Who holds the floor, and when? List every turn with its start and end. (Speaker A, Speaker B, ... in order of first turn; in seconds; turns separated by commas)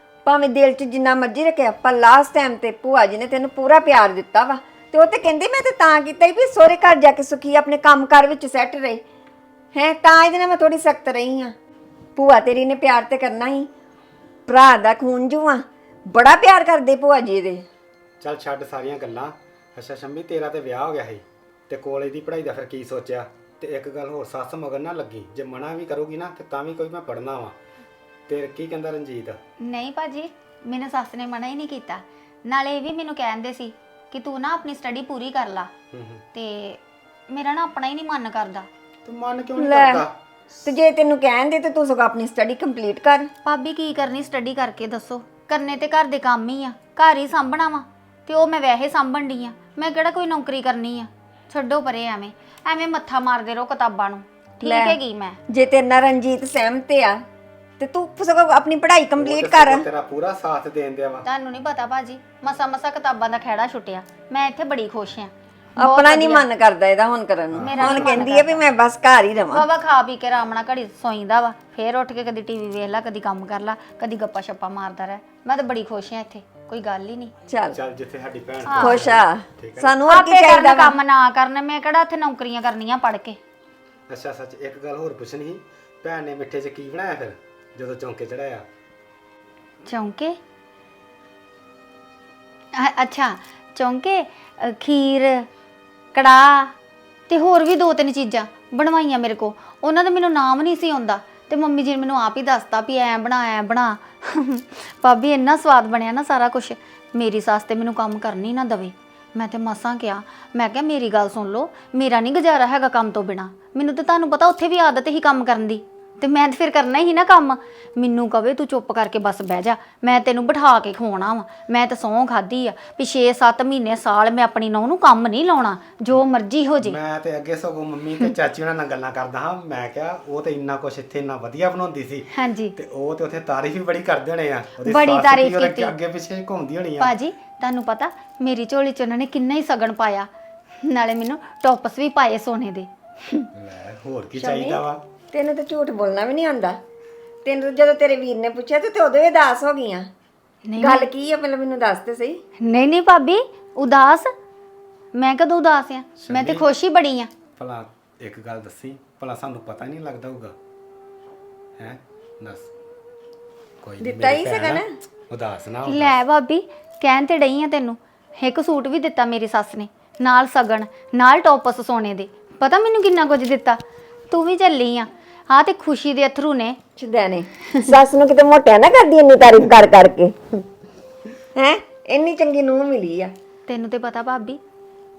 Speaker A: 0.2-9.0, Speaker A: 9.8-11.6, Speaker A: 12.2-13.7, Speaker A: 14.5-17.7, Speaker B: 18.2-27.6, Speaker B: 28.3-29.4, Speaker C: 29.6-35.7, Speaker B: 35.9-36.2, Speaker C: 36.3-38.7, Speaker B: 39.0-40.1, Speaker A: 39.6-40.0, Speaker A: 40.6-43.3, Speaker C: 43.5-55.4, Speaker A: 54.6-57.2, Speaker A: 57.8-59.9, Speaker B: 59.2-61.2, Speaker C: 61.2-66.5, Speaker A: 65.8-69.7, Speaker B: 67.5-68.2, Speaker C: 67.6-68.6, Speaker C: 69.5-77.3, Speaker A: 77.5-77.8, Speaker B: 77.7-79.9, Speaker C: 78.7-79.0, Speaker A: 78.8-81.0, Speaker C: 80.1-83.4, Speaker B: 84.1-88.7, Speaker C: 89.8-90.4, Speaker C: 92.7-95.5, Speaker C: 96.1-96.7, Speaker C: 97.3-127.0, Speaker B: 126.8-137.1, Speaker C: 132.3-132.8, Speaker C: 134.8-135.9, Speaker C: 137.0-140.3, Speaker C: 140.8-143.5, Speaker B: 143.6-145.0, Speaker C: 144.4-144.8, Speaker A: 145.3-146.8, Speaker A: 147.4-150.1, Speaker C: 150.7-151.1, Speaker A: 150.8-152.4, Speaker C: 152.6-154.3, Speaker C: 155.2-157.3, Speaker B: 156.2-156.7, Speaker B: 157.6-160.6, Speaker B: 161.8-162.7, Speaker B: 163.8-166.2, Speaker A: 164.0-164.9, Speaker C: 165.9-176.8, Speaker A: 177.0-180.6, Speaker A: 181.6-183.3, Speaker C: 183.7-184.6